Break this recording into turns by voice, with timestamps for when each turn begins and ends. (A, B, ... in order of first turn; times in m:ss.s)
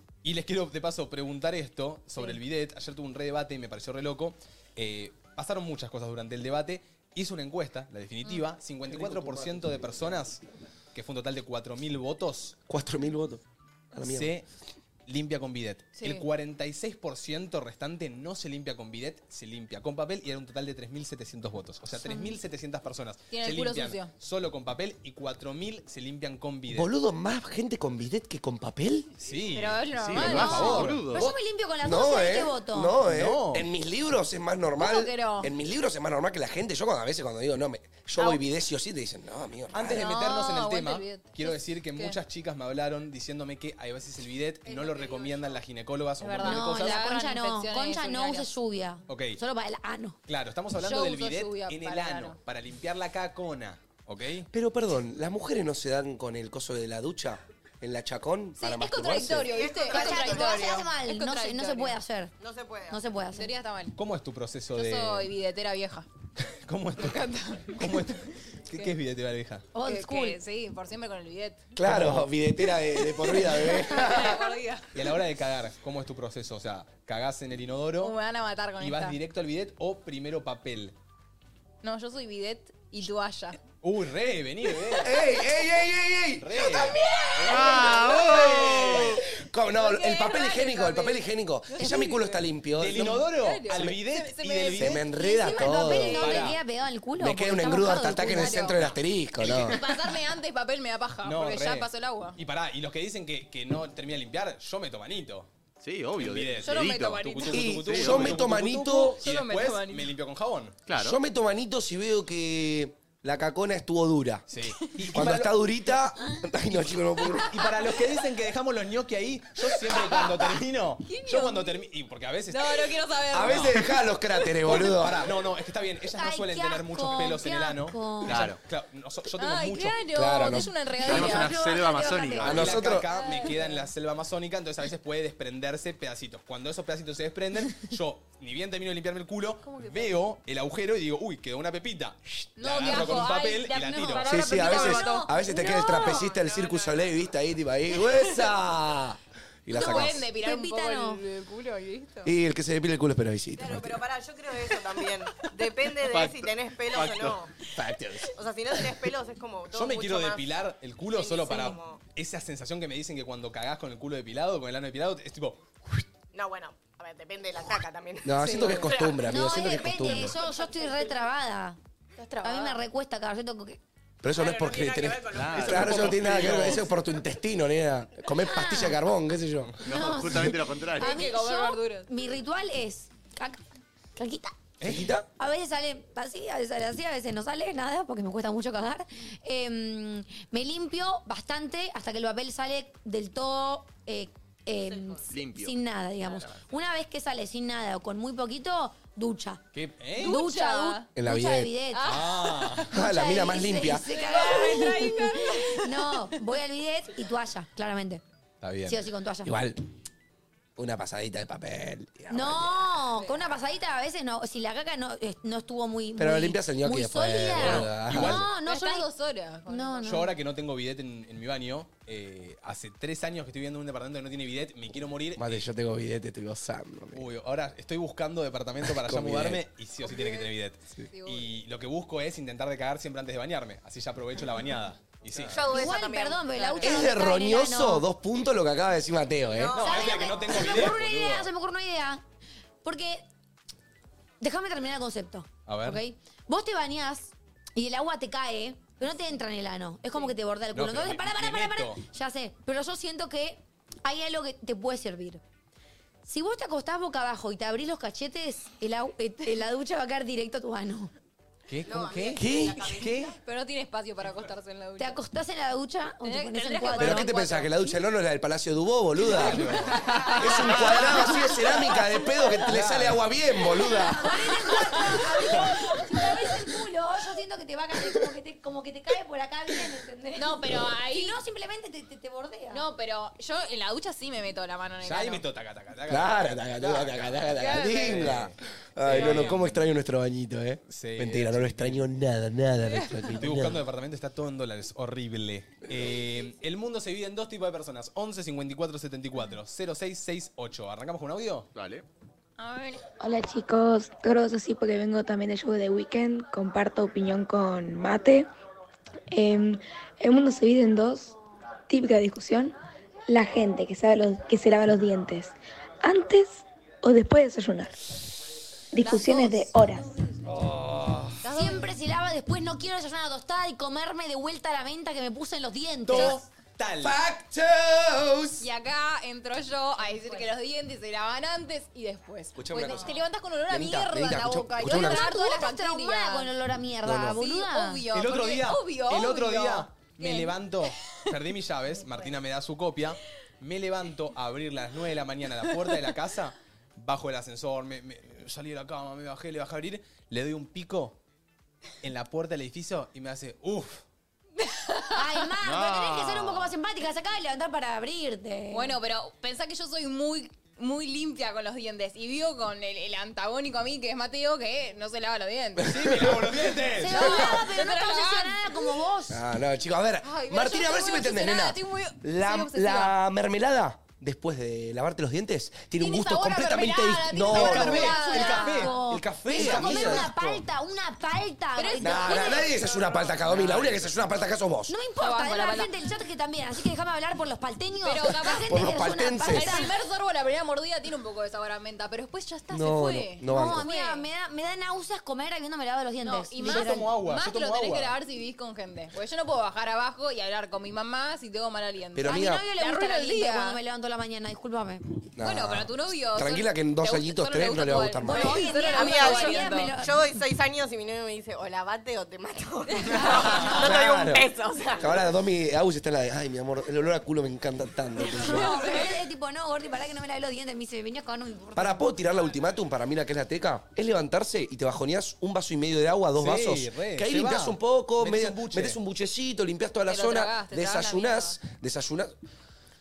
0:00.2-0:10.4 A
0:08.9-0:10.1 B
0:10.9-0:12.6 A
0:12.7-0:13.4 B
0:13.9-0:14.3 B
0:14.0-0:14.5 A
0:15.0-0:26.9 A
0:16.0-0:16.2 C
0:23.3-0:24.1 C
0:26.7-0:29.1 B
0:29.2-0:31.1 A
0:29.5-0:30.9 C
0:30.0-0:31.3 D
0:30.3-0:33.0 E
0:31.1-0:40.0 B
0:33.0-0:33.7 A
0:34.8-0:35.5 C
0:38.2-0:38.4 C
0:39.7-0:47.0 A
0:39.8-0:42.2 C
0:44.7-0:45.6 F
0:46.2-0:48.5 C
0:46.4-0:50.2 E
0:49.1-0:49.4 A
0:50.3-0:54.5 A
0:50.7-0:52.4 C
0:54.5-0:59.6 B
0:58.6-1:02.0 C
0:59.5-1:00.9 F
0:59.8-1:02.3 E
1:02.4-1:03.0 F
1:02.9-1:03.5 E
1:03.3-1:04.0 C
1:04.0-1:05.3 A
1:04.7-1:06.1 C
1:06.6-1:09.7 A
1:07.0-1:08.1 C
1:09.7-1:10.4 E
1:09.8-1:11.6 C
1:11.7-1:14.5 B
1:11.8-1:12.3 A
1:12.7-1:14.9 C
1:14.9-1:18.2 A
1:18.0-1:19.2 C
1:18.8-1:20.9 A
1:21.8-1:23.6 C
1:23.8-1:25.2 A
1:24.9-1:33.9 B
1:26.4-1:29.2 A
1:27.5-1:28.9 D
1:29.6-1:32.4 C
1:31.8-1:32.1 E
1:32.7-1:35.0 A
1:33.3-1:36.6 C
1:34.8-1:36.3 B
1:35.1-1:38.7 E
1:36.1-1:36.6 A
1:37.2-1:39.8 B
1:37.9-1:38.8 C
1:39.4-1:39.7 D
1:39.6-1:42.4 C
1:41.2-1:45.5 A
1:45.8-1:48.4 D
1:46.2-1:50.8 A
1:46.6-1:47.7 C
1:47.5-1:49.2 B
1:49.2-1:50.1 C
1:50.9-1:51.2 D
1:51.0-1:54.4 B
1:54.5-1:55.6 A
1:55.1-1:57.5 B
1:56.7-2:03.8 A
1:57.2-1:58.2 C
2:01.0-2:01.7 C
2:02.5-2:05.0 C
2:03.3-2:05.3 B
2:04.6-2:10.5 A
2:06.1-2:08.5 E
2:08.2-2:08.6 D
2:09.3-2:12.0 C
2:10.1-2:11.2 B
2:11.0-2:12.8 D
2:11.1-2:12.5 E
2:12.4-2:24.6 A
2:12.4-2:13.1 B
2:13.0-2:13.8 C
2:19.6-2:20.2 C
2:22.6-2:26.1 C
2:24.2-2:30.3 B
2:24.4-2:26.2 E
2:25.6-2:27.3 F
2:27.9-2:28.5 C
2:29.7-2:32.3 C
2:29.7-2:31.2 E
2:32.2-2:34.0 B
2:33.6-2:37.5 F
2:36.1-2:37.3 D
2:37.8-2:38.3 A
2:38.4-2:42.0 F
2:39.7-2:46.0 A
2:46.3-2:49.4 F
2:48.2-2:50.4 B
2:48.4-2:48.9 C
2:49.2-2:51.8 E
2:52.2-2:52.8 C
2:52.4-2:53.8 E
2:54.2-2:59.7 B
2:54.3-2:56.7 F
2:55.3-2:56.8 D
2:56.2-2:56.8 A
2:58.4-2:59.0 E
2:59.8-3:01.1 D
2:59.8-3:03.6 E
3:00.9-3:02.1 C
3:04.2-3:04.5 E
3:04.8-3:05.1 A
3:04.8-3:05.3 B
3:05.4-3:19.6 E
3:14.8-3:15.2 F
3:15.3-3:15.8 D
3:19.7-3:20.4 A
3:20.2-3:21.1 C
3:20.2-3:22.1 E
3:21.2-3:21.7 B
3:21.9-3:22.9 C
3:22.0-3:22.9 A
3:22.9-3:24.1 B
3:22.9-3:28.2 E
3:23.8-3:26.3 C
3:28.6-3:29.0 A
3:28.8-3:29.5 E
3:29.4-3:29.8 B
3:30.8-3:33.0 B
3:32.3-3:39.1 E
3:33.2-3:33.4 C
3:36.2-3:38.4 B
3:37.6-3:38.5 A
3:38.5-3:40.2 C
3:39.7-3:40.3 E
3:40.0-3:45.6 A
3:45.4-3:47.3 B
3:47.1-3:55.6 A
3:48.8-3:49.6 B
3:50.0-3:50.5 C
3:51.1-3:51.5 C
3:55.5-3:56.7 F
3:55.7-3:58.0 E
3:56.5-3:57.0 C
3:56.8-3:59.8 B
3:59.5-4:00.4 F
3:59.7-4:01.5 A
3:59.8-4:02.2 E
4:02.8-4:03.2 E
4:04.4-4:15.4 E
4:05.6-4:06.0 A
4:10.7-4:12.0 A
4:16.2-4:21.1 E
4:21.7-4:23.3 A
4:21.8-4:23.4 F
4:22.3-4:23.0 B
4:23.4-4:25.2 C
4:25.0-4:27.6 E
4:26.2-4:27.8 C
4:27.0-4:29.7 B
4:29.2-4:30.0 A
4:29.4-4:32.2 C
4:30.3-4:34.4 B
4:30.9-4:31.4 E
4:32.6-4:33.3 A
4:34.0-4:36.2 C
4:34.1-4:42.8 E
4:40.3-4:41.4 C
4:42.7-4:45.4 C
4:45.0-4:49.9 A
4:46.1-4:53.8 B
4:47.5-4:48.4 C
4:49.1-4:49.6 C
4:50.9-4:52.0 A
4:52.8-4:53.3 C
4:53.4-5:01.7 A
5:01.7-5:02.0 D
5:02.6-5:03.0 C
5:03.2-5:08.5 G
5:09.3-5:11.3 G
5:11.9-5:12.7 G
5:13.3-5:18.2 G
5:18.9-5:20.1 G
5:19.0-5:20.3 C
5:20.4-5:21.4 B
5:21.4-5:21.9 C
5:21.5-5:26.4 E
5:26.1-5:27.2 A
5:26.1-5:26.4 C
5:27.0-5:28.7 B
5:28.6-5:36.5 C
5:32.5-5:35.2 B
5:34.8-5:38.0 E
5:37.0-5:37.4 B
5:37.3-5:40.6 C
5:38.1-5:51.2 A
5:52.0-5:54.0 A
5:54.6-5:55.5 C
5:55.1-5:59.0 E
5:55.6-5:56.7 D
5:58.7-6:05.9 C
6:05.8-6:06.7 B
6:05.8-6:07.4 A
6:07.0-6:09.4 E
6:07.0-6:09.0 C
6:09.3-6:18.2 B
6:10.2-6:13.2 C
6:16.0-6:19.0 C
6:17.4-6:18.9 A
6:17.7-6:22.6 E
6:19.0-6:20.5 B
6:19.6-6:20.1 C
6:21.8-6:23.2 C
6:22.0-6:24.9 B
6:23.4-6:24.1 A
6:24.9-6:29.9 E
6:25.2-6:25.9 C
6:28.0-6:34.3 C
6:28.6-6:29.7 B
6:32.7-6:33.9 B
6:33.5-6:37.0 E
6:36.2-6:43.8 C
6:36.6-6:38.1 A
6:42.1-6:42.6 B
6:42.2-6:45.0 E
6:45.4-6:48.7 B
6:45.4-6:50.0 C
6:48.2-6:50.1 E
6:48.9-6:55.3 F
6:53.1-6:53.6 C
6:53.1-6:53.8 E
6:53.6-6:58.8 B
6:58.2-7:02.1 E
6:58.5-6:59.1 C
7:01.8-7:12.3 B
7:06.4-7:09.0 A
7:10.0-7:11.6 C